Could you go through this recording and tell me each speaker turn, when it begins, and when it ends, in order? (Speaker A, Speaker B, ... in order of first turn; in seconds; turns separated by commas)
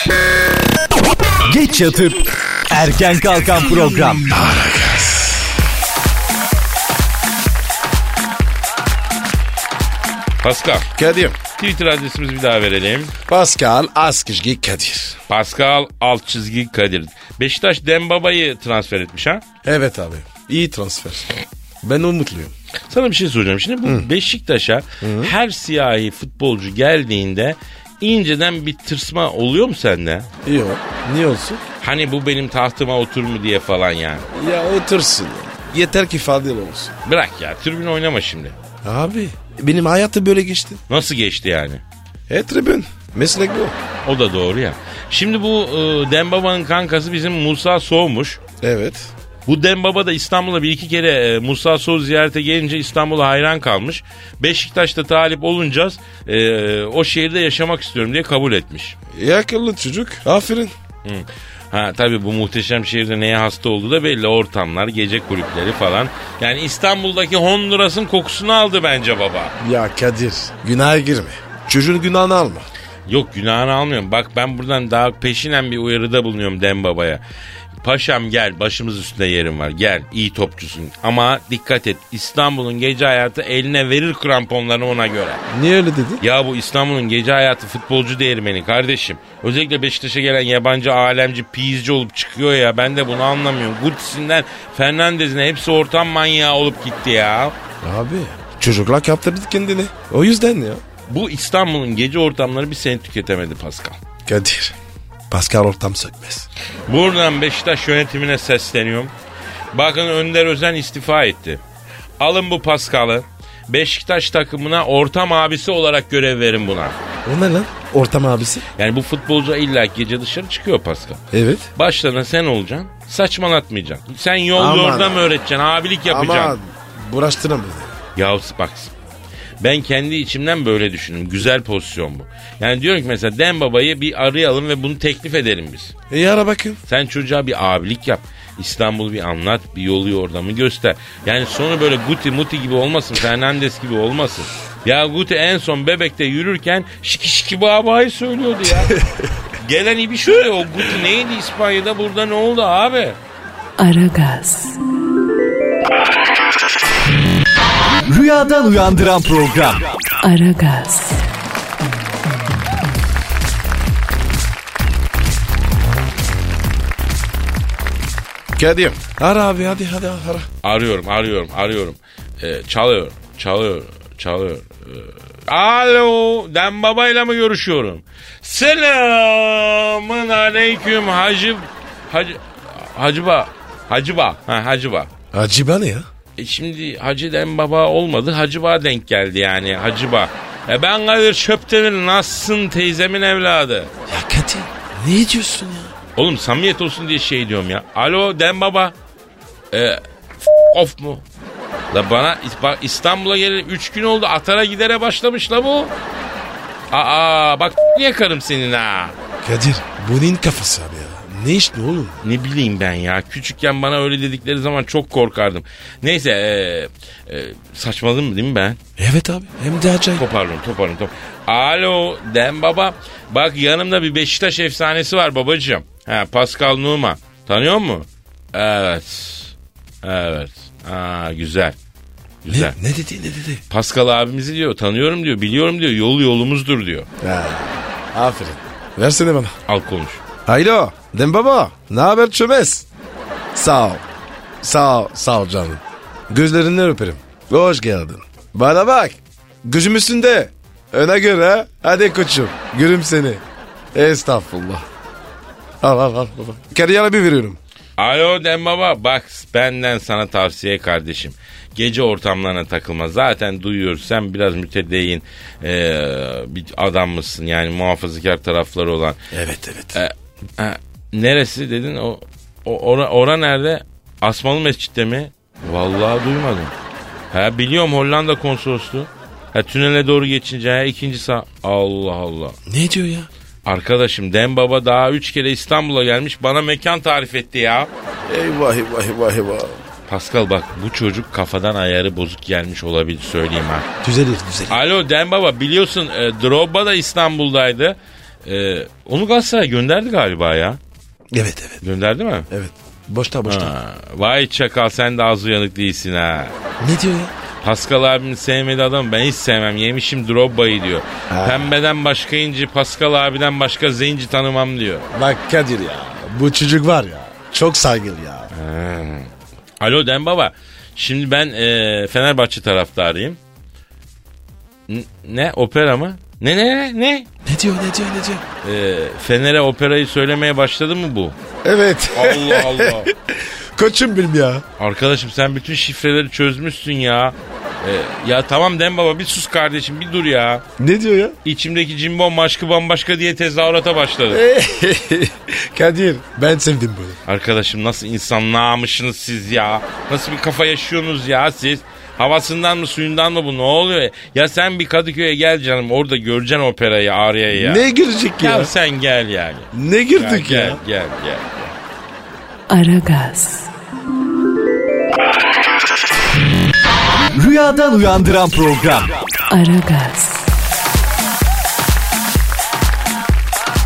Speaker A: 1.4-4.3, Speaker B: 4.2-5.5, Speaker C: 10.4-10.9, Speaker B: 10.9-11.4, Speaker C: 11.6-13.1, Speaker B: 13.3-15.2, Speaker C: 15.3-19.4, Speaker B: 19.6-21.3, Speaker B: 21.8-22.5, Speaker C: 22.9-30.3, Speaker B: 25.0-25.3, Speaker B: 30.4-31.6, Speaker C: 31.8-34.3, Speaker B: 34.3-36.9, Speaker C: 37.0-38.5, Speaker B: 38.8-40.8, Speaker C: 40.9-41.8, Speaker B: 42.3-43.8, Speaker C: 44.0-48.4, Speaker B: 48.6-49.1, Speaker C: 49.5-59.0, Speaker B: 59.1-60.7, Speaker C: 61.0-69.5, Speaker B: 69.6-72.7, Speaker C: 73.1-77.2, Speaker C: 77.8-85.4, Speaker B: 85.5-86.2, Speaker C: 86.2-97.5, Speaker B: 97.8-100.8, Speaker C: 101.1-104.0, Speaker B: 104.2-104.7, Speaker B: 105.3-106.5, Speaker C: 106.9-109.1, Speaker C: 109.7-111.6, Speaker C: 112.2-117.0, Speaker B: 117.2-118.6, Speaker C: 118.8-121.2, Speaker B: 121.3-121.7, Speaker C: 121.7-126.6, Speaker B: 124.5-125.2, Speaker B: 126.0-127.9, Speaker C: 128.2-128.9, Speaker C: 129.6-135.9, Speaker B: 136.1-136.8, Speaker C: 136.9-148.9, Speaker B: 148.9-149.3, Speaker C: 149.6-153.2, Speaker D: 153.8-154.8, Speaker A: 158.1-159.9, Speaker D: 160.2-161.2, Speaker B: 168.6-170.5, Speaker C: 170.6-185.1, Speaker B: 185.3-186.1, Speaker C: 186.4-193.9, Speaker B: 194.1-195.9, Speaker C: 196.2-198.9, Speaker C: 199.7-201.2, Speaker C: 201.9-205.9, Speaker C: 206.9-209.2, Speaker B: 209.4-212.2, Speaker C: 212.2-218.8, Speaker B: 219.0-220.2, Speaker C: 220.2-231.8, Speaker C: 232.4-232.8, Speaker B: 232.5-233.6, Speaker C: 233.7-237.1, Speaker B: 237.2-239.6, Speaker C: 239.7-240.2, Speaker B: 240.4-242.9, Speaker B: 243.5-244.0, Speaker B: 244.6-253.4, Speaker B: 253.9-254.8, Speaker B: 255.8-257.6, Speaker C: 258.0-269.2, Speaker B: 269.3-270.0, Speaker C: 269.9-276.7, Speaker C: 277.3-282.6, Speaker B: 282.6-283.3, Speaker C: 283.6-287.9, Speaker B: 288.2-289.8, Speaker C: 290.1-293.9, Speaker B: 294.0-294.8, Speaker C: 294.7-300.8, Speaker B: 301.3-301.8, Speaker C: 301.8-302.5, Speaker B: 302.5-303.7, Speaker C: 303.5-306.5, Speaker B: 306.8-307.3, Speaker C: 307.6-315.1, Speaker B: 311.3-311.7, Speaker B: 315.1-318.5, Speaker C: 318.5-323.4, Speaker C: 324.9-327.3, Speaker B: 327.4-328.4, Speaker C: 328.6-331.4, Speaker B: 331.6-334.6, Speaker C: 332.1-333.1, Speaker C: 334.8-340.6, Speaker B: 340.8-341.3, Speaker C: 341.4-344.4, Speaker B: 344.3-347.2, Speaker C: 347.2-357.8, Speaker B: 357.5-358.7, Speaker C: 358.4-361.7, Speaker B: 359.7-360.8, Speaker D: 362.7-363.7, Speaker A: 367.3-369.2, Speaker D: 369.5-370.5